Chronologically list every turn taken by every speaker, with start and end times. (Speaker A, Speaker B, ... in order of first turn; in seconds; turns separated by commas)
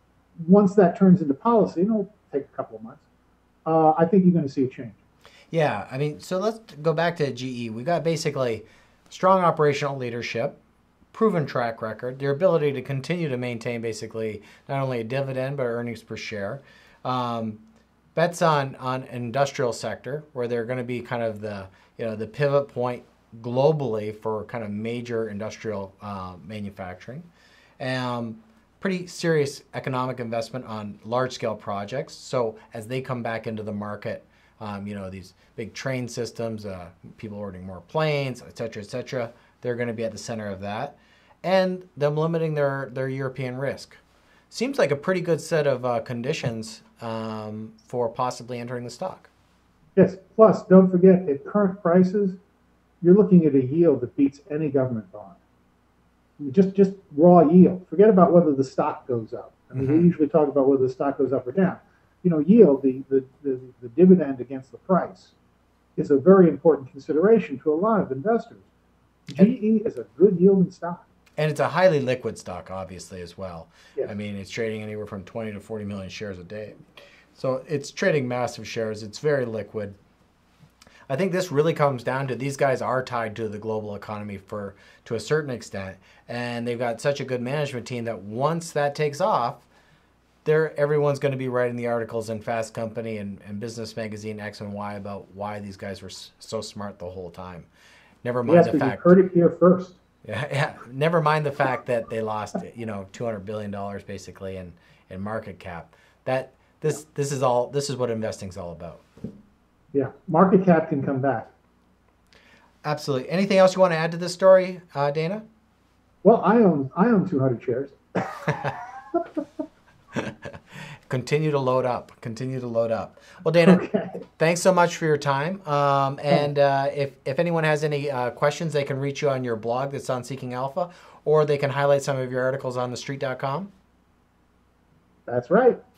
Speaker A: 0.4-3.0, Speaker A: 3.6-5.0, Speaker B: 5.5-10.6, Speaker B: 11.1-17.6, Speaker B: 18.1-27.3, Speaker B: 27.8-49.3, Speaker A: 50.0-52.4, Speaker A: 53.0-55.4, Speaker A: 56.4-65.3, Speaker B: 59.8-60.1, Speaker A: 66.0-68.6, Speaker A: 69.3-71.0, Speaker B: 71.4-76.8, Speaker B: 77.3-80.0, Speaker B: 81.1-89.7, Speaker B: 90.4-97.7, Speaker B: 98.2-99.1, Speaker A: 98.5-100.0, Speaker B: 100.2-109.0, Speaker A: 109.9-111.5, Speaker B: 112.8-115.4, Speaker A: 116.2-119.2, Speaker B: 120.1-120.5, Speaker B: 121.1-123.8, Speaker A: 123.6-124.2, Speaker B: 124.4-133.7, Speaker A: 135.3-135.8